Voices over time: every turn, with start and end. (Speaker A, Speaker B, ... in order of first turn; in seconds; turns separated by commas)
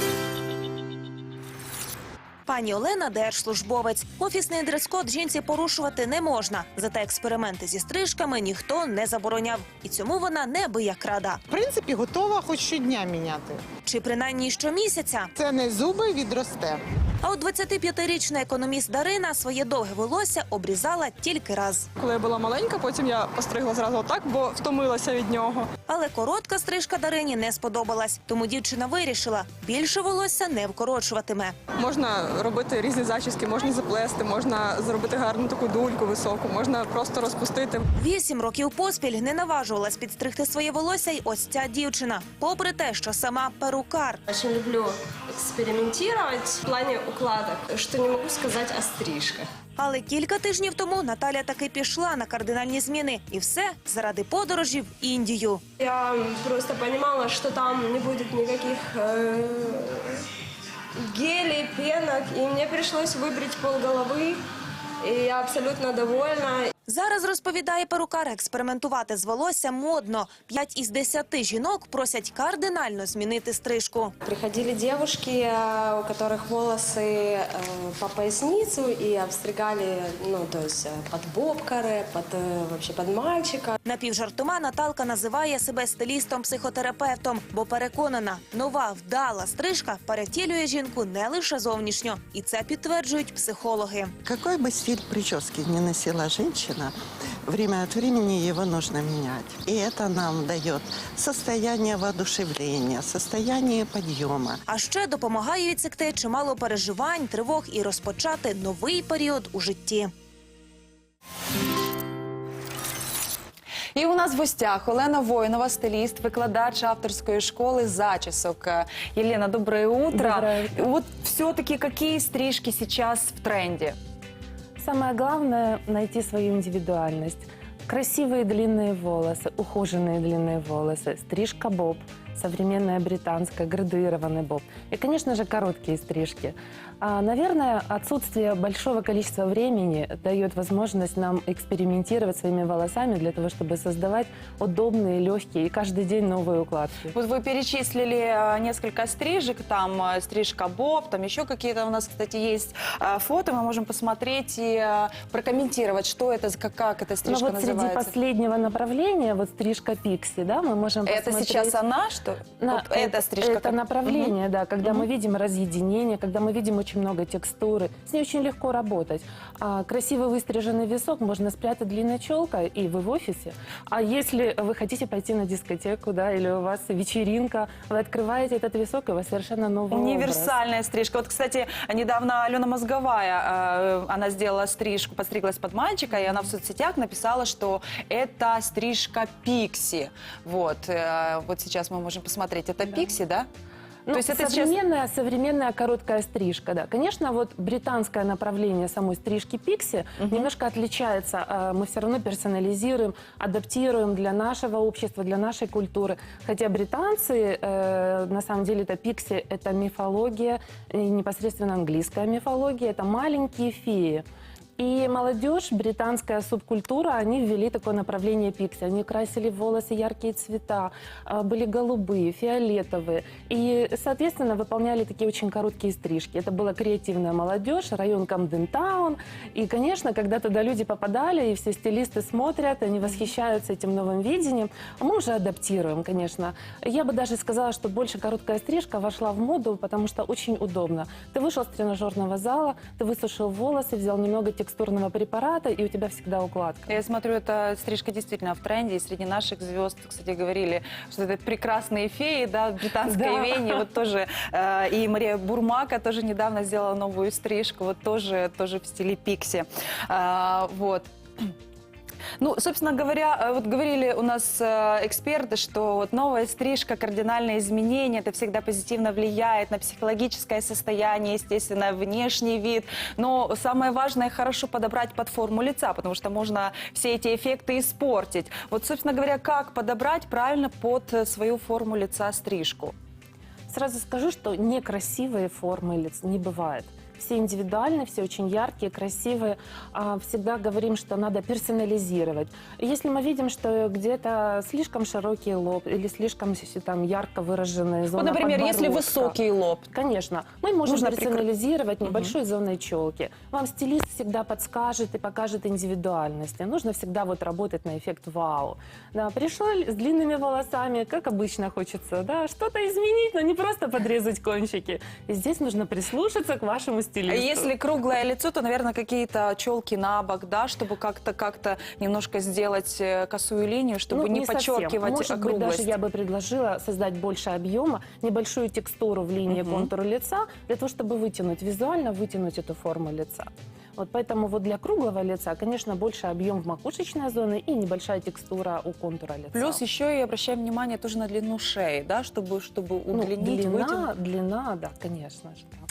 Speaker A: 2.5-11.4, Speaker B: 11.5-13.7, Speaker A: 13.8-15.3, Speaker B: 15.3-16.8, Speaker A: 17.2-21.9, Speaker C: 22.0-25.7, Speaker A: 25.9-31.6, Speaker C: 31.8-37.9, Speaker A: 38.0-44.2, Speaker D: 44.3-49.5, Speaker A: 49.8-55.6, Speaker D: 55.8-60.2, Speaker D: 61.0-64.4, Speaker D: 65.0-66.7, Speaker A: 66.9-74.1, Speaker D: 74.2-83.8, Speaker A: 83.8-94.2, Speaker E: 94.2-97.0, Speaker E: 97.5-104.6, Speaker A: 104.7-110.1, Speaker F: 114.0-124.0, Speaker G: 120.1-120.9, Speaker G: 124.8-147.2, Speaker F: 147.1-158.1, Speaker G: 157.2-161.8, Speaker F: 161.1-165.1, Speaker G: 162.6-180.6, Speaker F: 179.9-193.5, Speaker G: 194.1-214.2, Speaker F: 194.1-194.8, Speaker F: 200.2-200.5, Speaker G: 214.8-247.0, Speaker F: 246.9-261.5, Speaker G: 253.1-253.8, Speaker F: 262.4-282.9, Speaker G: 283.7-299.4, Speaker F: 298.1-299.9, Speaker G: 299.9-317.7, Speaker F: 300.9-301.4, Speaker F: 302.1-302.3, Speaker F: 317.3-326.0, Speaker G: 324.1-339.8, Speaker F: 329.5-329.9, Speaker F: 339.5-344.1, Speaker G: 343.1-345.8